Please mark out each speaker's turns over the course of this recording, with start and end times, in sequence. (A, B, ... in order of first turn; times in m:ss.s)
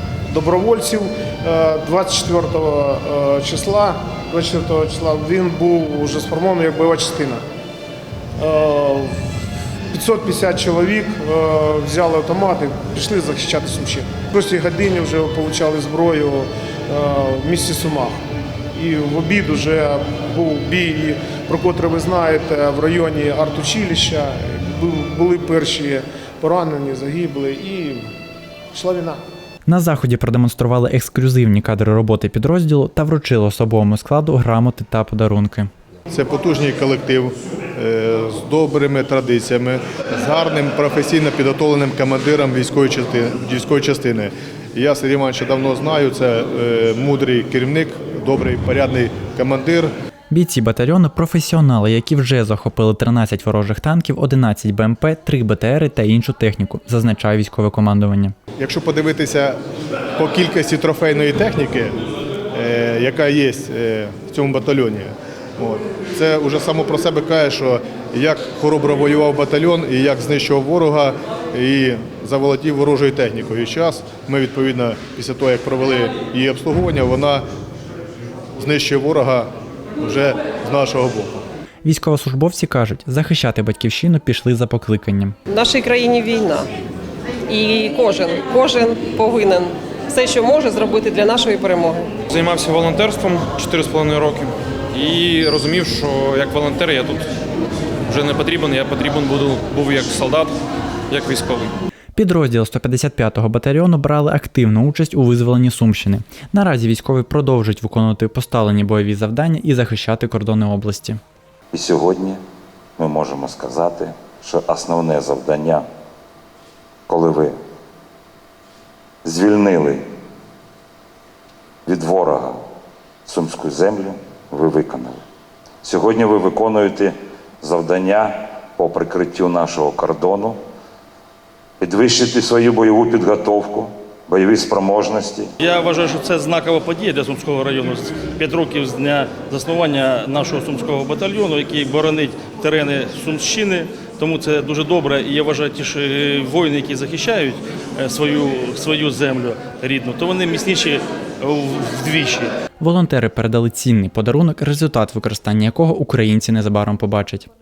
0:00.3-0:07.4 A
0:08.4-0:09.2 A
0:09.9-0:18.2 A
0:18.7-0:28.0 A
0:28.7-0:29.2 A
0:29.7-0:35.7 B
0:36.1-0:49.9 C
0:50.3-0:58.3 B
0:58.6-0:59.6 C
1:00.2-1:01.9 C
1:02.5-1:17.4 C
1:18.6-1:19.5 C
1:20.0-1:21.4 C
1:21.8-1:25.3 B
1:25.5-1:26.7 D
1:27.5-1:32.1 D
1:32.3-1:37.2 E
1:38.1-1:40.5 E
1:41.1-1:41.7 E
1:42.2-1:51.2 B
1:51.7-1:52.4 F
1:53.0-1:55.8 F
1:57.1-1:57.6 F
1:59.2-2:00.0 F
2:01.8-2:02.6 F
2:03.2-2:05.2 F
2:05.8-2:10.6 F
2:11.8-2:15.5 F
2:15.6-2:32.5 G
2:32.8-2:37.5 B